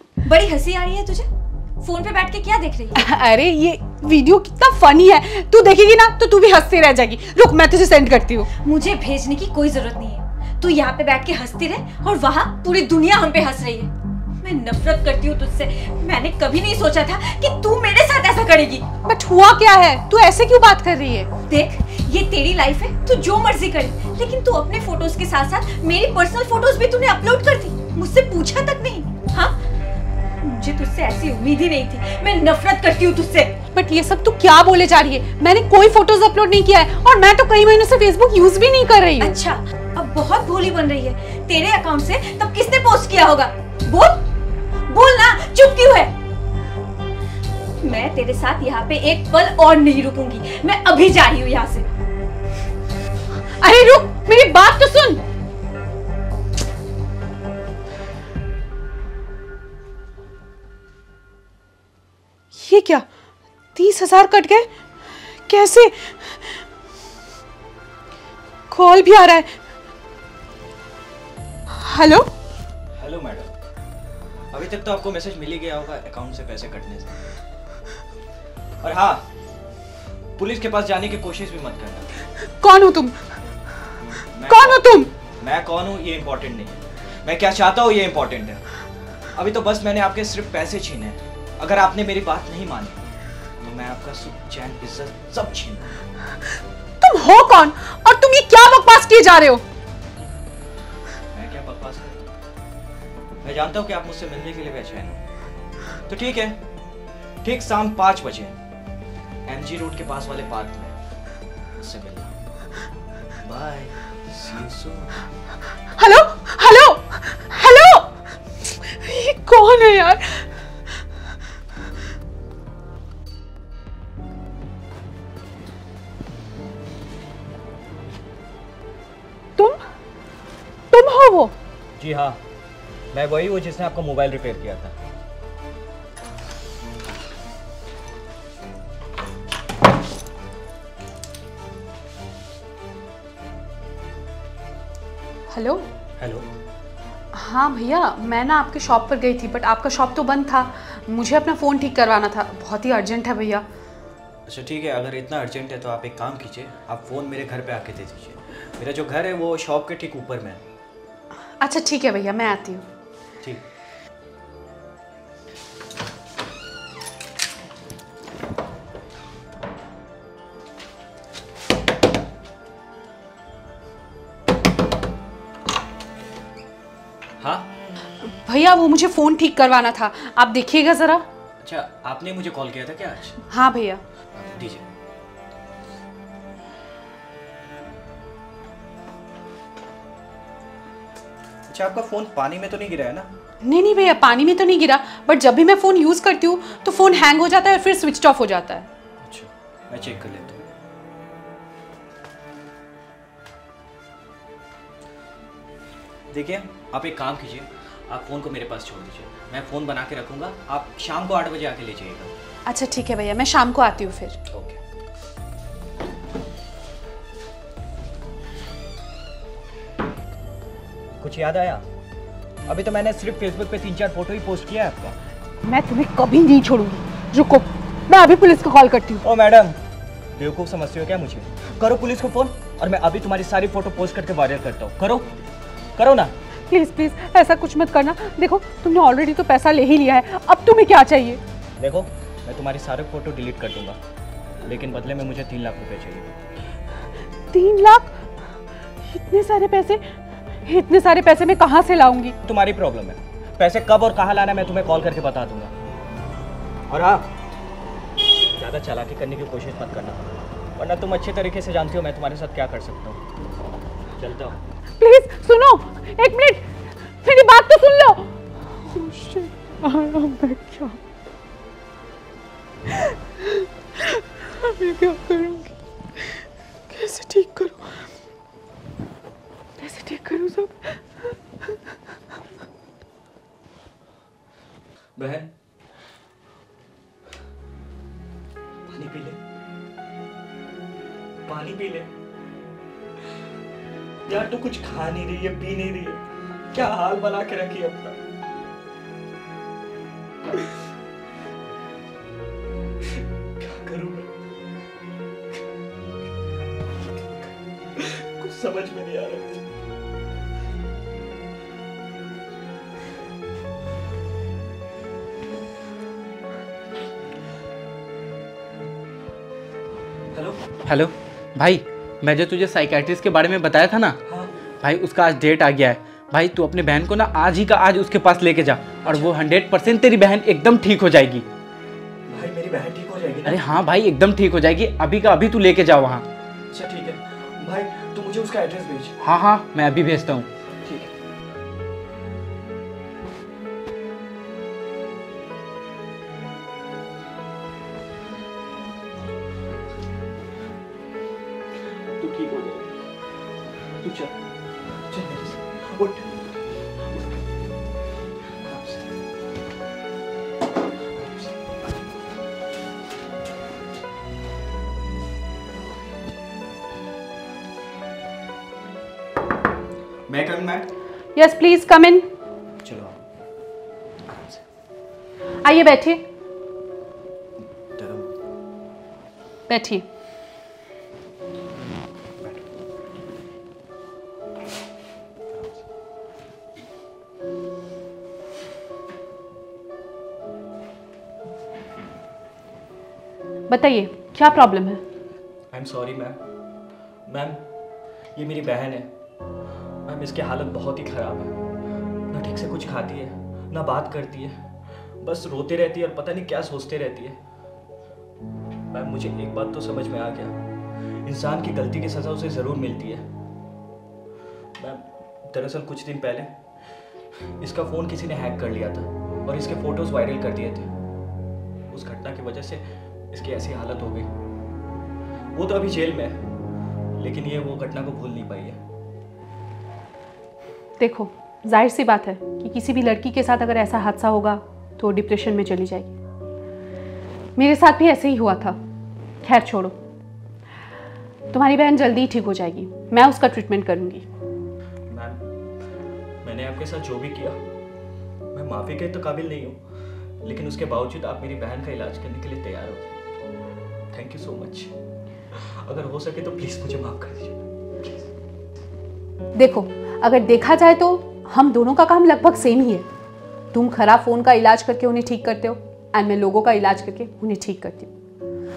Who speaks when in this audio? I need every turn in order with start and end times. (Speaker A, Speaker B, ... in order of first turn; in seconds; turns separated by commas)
Speaker A: 0.2-1.3, Speaker A: 1.8-3.0, Speaker B: 3.0-8.5, Speaker A: 8.6-13.9, Speaker A: 14.4-18.9, Speaker B: 19.1-21.3, Speaker A: 21.5-29.6, Speaker A: 30.4-33.5, Speaker B: 33.7-39.4, Speaker A: 39.2-44.2, Speaker A: 44.9-46.1, Speaker A: 47.8-51.9, Speaker B: 53.6-55.2, Speaker B: 62.5-63.0, Speaker B: 63.8-64.7, Speaker B: 65.5-66.7, Speaker B: 68.7-69.6, Speaker B: 71.7-72.3, Speaker C: 73.0-73.5, Speaker C: 74.5-77.2, Speaker C: 78.8-79.3, Speaker C: 80.4-82.1, Speaker B: 82.4-83.4, Speaker C: 84.0-88.6, Speaker B: 84.5-85.1, Speaker C: 89.3-93.0, Speaker C: 93.6-96.0, Speaker B: 97.0-99.6, Speaker C: 101.3-102.3, Speaker C: 103.4-105.2, Speaker C: 106.1-106.6, Speaker C: 107.4-108.6, Speaker C: 109.5-111.0, Speaker C: 111.8-112.3, Speaker C: 113.4-115.2, Speaker B: 116.0-118.1, Speaker B: 118.7-120.5, Speaker B: 130.9-131.5, Speaker C: 132.0-132.4, Speaker C: 133.1-134.9, Speaker B: 145.5-145.9, Speaker C: 146.2-146.5, Speaker B: 147.3-153.6, Speaker C: 154.5-160.6, Speaker B: 161.6-162.8, Speaker C: 177.4-177.7, Speaker B: 178.2-181.2, Speaker C: 181.6-183.4, Speaker B: 183.5-184.0, Speaker C: 184.3-184.8, Speaker C: 191.7-193.3, Speaker B: 193.6-198.9, Speaker C: 199.2-200.7, Speaker C: 206.3-212.3, Speaker B: 212.7-214.4, Speaker C: 214.5-214.8, Speaker C: 221.2-221.8, Speaker C: 222.7-225.2, Speaker B: 225.6-229.2, Speaker C: 229.2-229.8, Speaker C: 230.3-235.3, Speaker C: 236.0-236.3, Speaker B: 236.7-241.4, Speaker C: 241.8-244.0, Speaker C: 244.6-246.4, Speaker B: 247.5-248.2, Speaker B: 249.1-250.0, Speaker B: 250.7-252.4, Speaker C: 252.4-255.7, Speaker C: 256.9-257.3, Speaker C: 258.6-263.2, Speaker C: 264.2-264.6, Speaker B: 265.0-266.6, Speaker B: 267.2-271.0, Speaker B: 272.9-275.7, Speaker B: 276.9-278.1, Speaker B: 279.8-281.0, Speaker C: 285.2-285.5, Speaker C: 288.9-289.4, Speaker C: 291.5-292.1, Speaker C: 294.3-296.2, Speaker C: 296.7-298.2, Speaker C: 303.2-304.3, Speaker C: 307.0-309.6, Speaker C: 320.3-320.6, Speaker D: 320.9-324.2, Speaker C: 324.3-324.6, Speaker D: 324.8-331.4, Speaker C: 329.1-329.4, Speaker C: 332.3-333.7, Speaker D: 333.4-336.2, Speaker C: 336.7-339.2, Speaker D: 339.2-340.5, Speaker C: 340.9-341.1, Speaker C: 352.1-357.4, Speaker C: 358.5-359.1, Speaker C: 361.1-361.7, Speaker C: 370.3-370.9, Speaker B: 371.4-372.3, Speaker C: 372.8-373.2, Speaker C: 374.3-374.6, Speaker B: 375.6-376.2, Speaker C: 377.9-378.3, Speaker B: 379.7-380.1, Speaker C: 385.5-385.8, Speaker B: 393.7-395.0, Speaker C: 395.7-396.4, Speaker C: 397.3-397.6, Speaker C: 398.4-399.1, Speaker C: 400.1-401.6, Speaker C: 402.3-404.6, Speaker C: 405.2-407.4, Speaker C: 408.9-410.6, Speaker C: 411.2-413.3, Speaker C: 414.8-416.6, Speaker C: 417.6-420.9, Speaker C: 421.9-424.3, Speaker C: 425.5-426.4, Speaker C: 427.2-428.8, Speaker B: 431.0-436.1, Speaker B: 437.6-438.8, Speaker B: 439.4-439.9, Speaker B: 441.5-444.2, Speaker C: 445.1-445.4, Speaker C: 446.4-447.6, Speaker C: 448.5-449.8, Speaker C: 450.4-453.2, Speaker C: 454.1-454.9, Speaker C: 455.5-458.3, Speaker B: 459.6-463.1, Speaker B: 463.7-468.1